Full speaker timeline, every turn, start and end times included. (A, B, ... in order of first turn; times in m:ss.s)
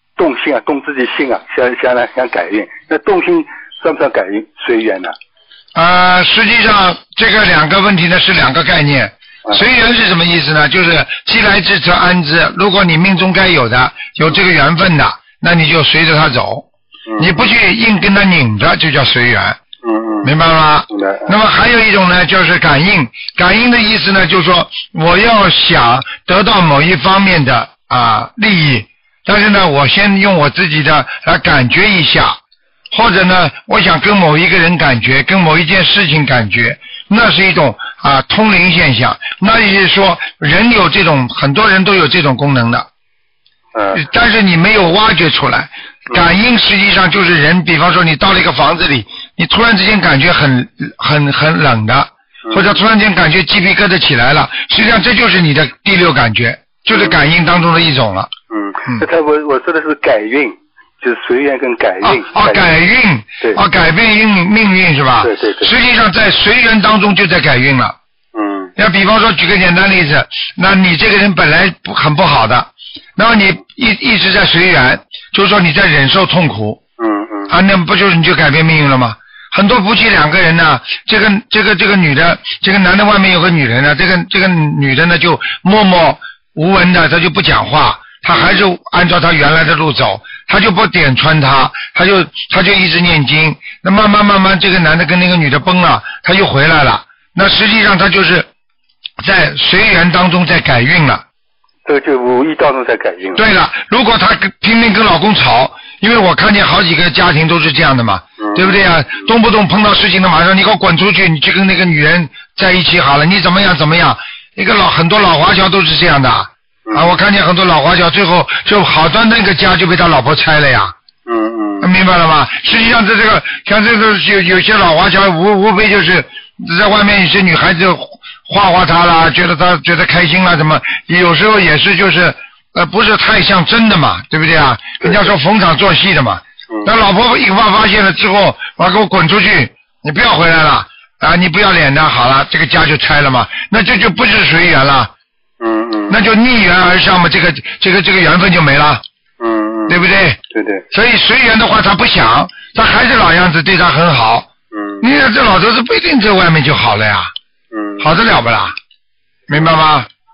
0:00.2-0:05.1 A
0:05.7-0:16.7 B
0:17.1-0:17.5 A
0:17.2-0:19.6 B
0:19.8-0:20.3 A
0:20.2-0:32.4 B
0:20.9-0:21.3 A
0:32.9-0:42.9 B
0:43.7-0:44.0 A
0:43.9-0:58.3 B
0:52.5-0:52.7 A
0:56.9-0:57.2 A
0:58.5-1:02.7 A
1:02.0-1:07.9 B
1:05.2-1:05.7 A
1:08.3-1:08.7 A
1:08.8-1:16.8 B
1:17.0-1:17.5 A
1:17.5-1:38.5 B
1:28.3-1:28.6 A
1:39.2-1:41.2 B
1:41.8-1:43.4 A
1:43.3-2:00.9 B
1:48.4-1:48.8 A
1:56.9-1:57.1 A
2:01.2-2:01.9 A
2:01.8-2:25.1 B
2:15.0-2:15.3 A
2:25.6-2:26.2 A
2:26.1-2:29.0 B
2:29.4-2:30.0 A
2:29.9-2:30.4 B
2:30.5-2:30.8 A
2:30.9-2:34.5 B
2:34.7-2:35.0 A
2:35.0-2:37.3 B
2:37.7-2:38.1 A
2:38.0-2:38.7 B
2:39.5-2:40.1 B